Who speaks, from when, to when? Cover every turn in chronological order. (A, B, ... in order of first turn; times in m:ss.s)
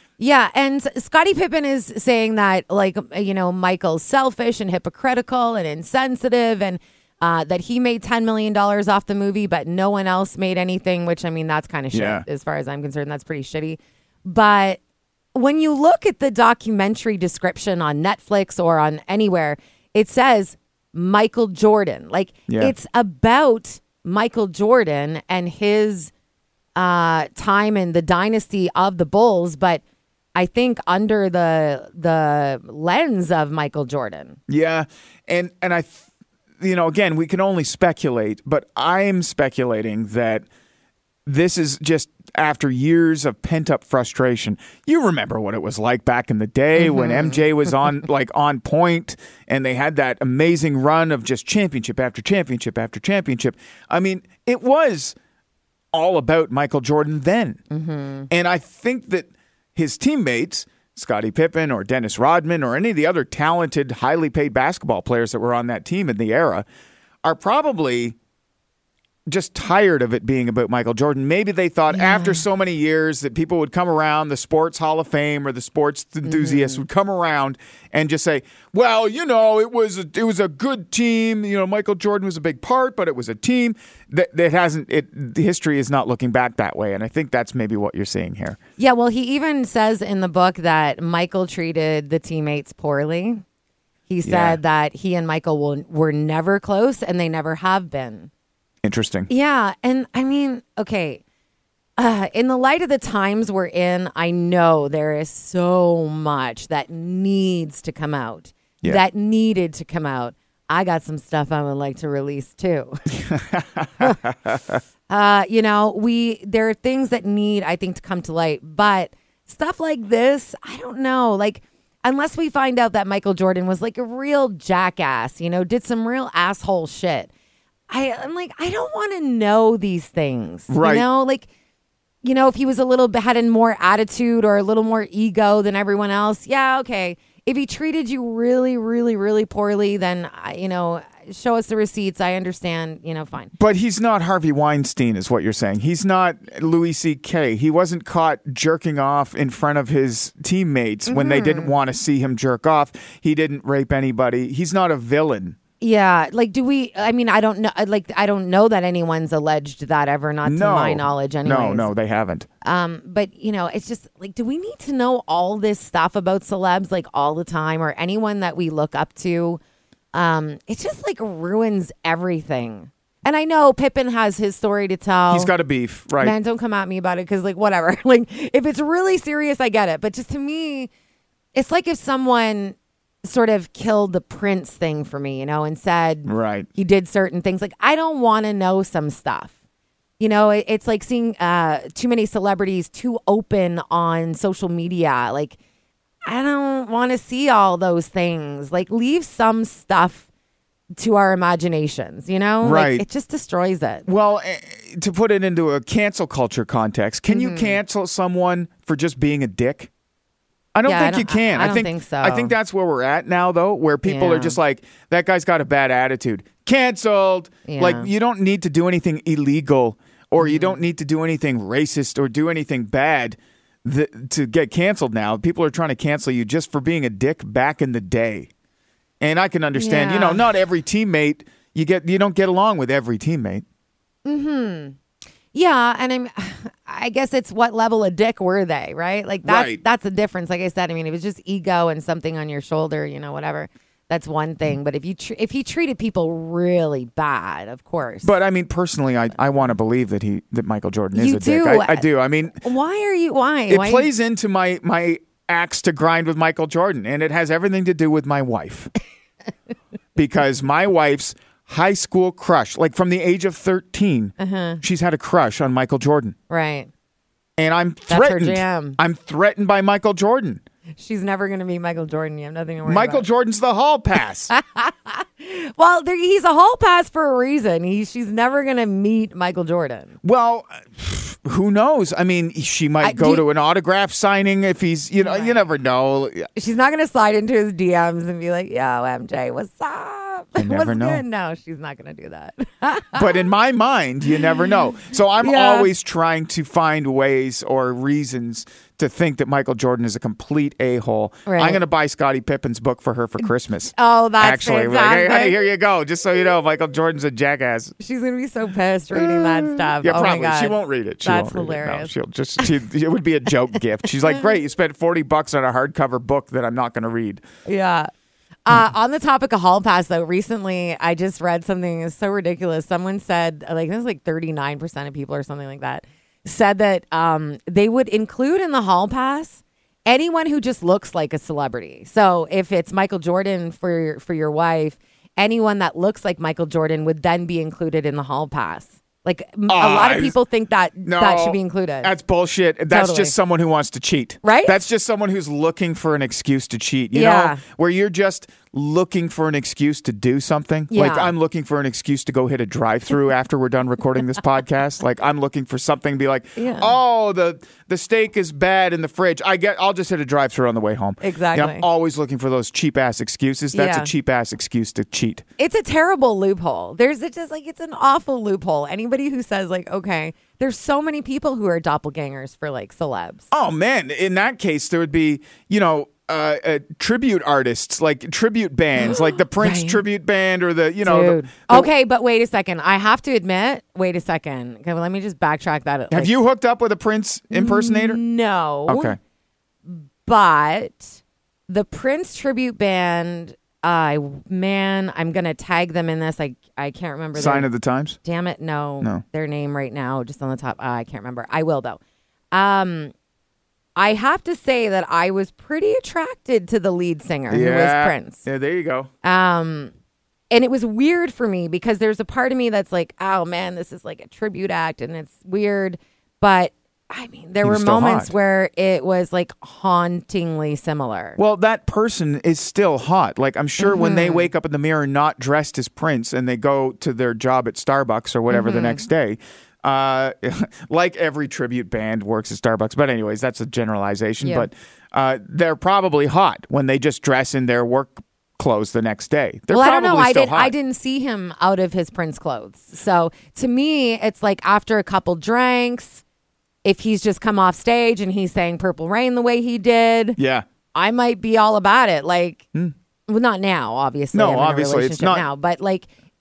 0:00.2-0:14.8 A
0:11.9-0:12.2 B
0:15.3-0:26.1 A
0:22.5-0:22.7 B
0:26.8-0:29.8 A
0:30.4-0:34.4 A
0:34.5-0:36.0 B
0:36.6-0:40.5 B
0:41.3-0:55.2 B
0:46.8-0:47.5 A
0:55.9-0:57.6 B
0:57.7-0:58.3 A
0:58.3-1:06.7 B
1:07.2-1:08.2 B
1:09.3-1:28.6 B
1:11.9-1:12.4 A
1:16.2-1:16.8 A
1:28.8-1:33.4 A
1:34.1-1:38.3 A
1:34.2-1:34.6 B
1:38.8-1:39.3 B
1:39.3-1:41.2 A
1:42.0-1:53.0 A
1:53.1-1:54.8 B
1:55.1-2:07.3 A
2:07.9-2:11.5 A
2:10.7-2:11.1 B
2:12.2-2:23.5 A
2:23.6-2:35.6 B
2:31.1-2:31.8 A
2:35.8-2:41.9 A
2:40.4-2:42.5 B
2:42.6-2:49.6 A
2:50.1-2:55.5 A
2:55.3-2:56.4 B
2:56.2-3:00.9 A
3:01.5-3:09.5 A
3:06.3-3:06.7 B
3:10.2-3:15.6 A
3:16.3-3:20.3 A
3:21.0-3:24.1 A
3:22.6-3:23.0 B
3:24.1-3:29.9 B
3:27.3-3:27.8 A
3:30.8-3:48.5 B
3:30.8-3:32.5 A
3:34.0-3:34.6 A
3:37.6-3:38.1 A
3:40.4-3:40.8 A
3:49.2-3:53.6 B
3:49.8-3:50.5 A
3:54.2-3:55.0 A
3:55.5-4:08.3 A
3:59.4-3:59.8 B
4:08.2-4:12.6 B
4:11.1-4:12.1 A
4:12.6-4:14.1 A
4:13.7-4:18.9 B
4:20.2-4:26.4 B
4:24.4-4:24.8 A
4:26.5-4:26.9 A
4:27.6-4:30.6 B
4:28.1-4:29.0 A
4:31.0-4:33.2 A
4:32.8-4:34.5 B
4:34.5-4:40.2 A
4:40.2-4:46.5 B
4:43.0-4:43.4 A
4:45.2-4:45.6 A
4:46.6-4:53.4 A
4:50.6-4:51.2 B
4:53.1-5:08.0 B
4:55.4-4:55.9 A
5:01.5-5:01.8 A
5:03.9-5:05.6 A
5:08.0-5:12.7 A
5:09.1-5:17.4 B
5:17.7-5:18.1 A
5:18.7-5:42.1 A
5:39.7-5:40.4 B
5:41.0-6:05.4 B
5:42.9-5:43.3 A
5:44.4-5:44.8 A
5:47.1-5:47.6 A
5:50.9-5:51.3 A
5:56.6-5:56.9 A
6:01.2-6:01.9 A
6:03.7-6:04.1 A
6:05.6-6:13.5 A
6:13.5-6:21.9 B
6:19.6-6:20.0 A
6:21.0-6:26.4 A
6:26.1-6:28.2 B
6:27.5-6:29.2 A
6:28.9-6:29.2 B
6:29.9-6:37.7 A
6:37.3-6:38.2 B
6:38.2-6:42.0 A
6:42.5-6:43.1 A
6:44.0-6:48.4 A
6:47.5-6:49.1 B
6:49.2-6:49.9 A
6:50.5-7:01.4 A
6:57.6-6:58.3 B
7:01.4-7:20.7 B
7:03.8-7:04.5 A
7:08.5-7:09.0 A
7:14.4-7:14.7 A
7:19.7-7:26.2 A
7:26.8-7:30.4 A
7:30.4-7:30.7 B
7:30.9-7:32.6 A
7:33.3-7:36.1 A
7:34.3-7:35.4 B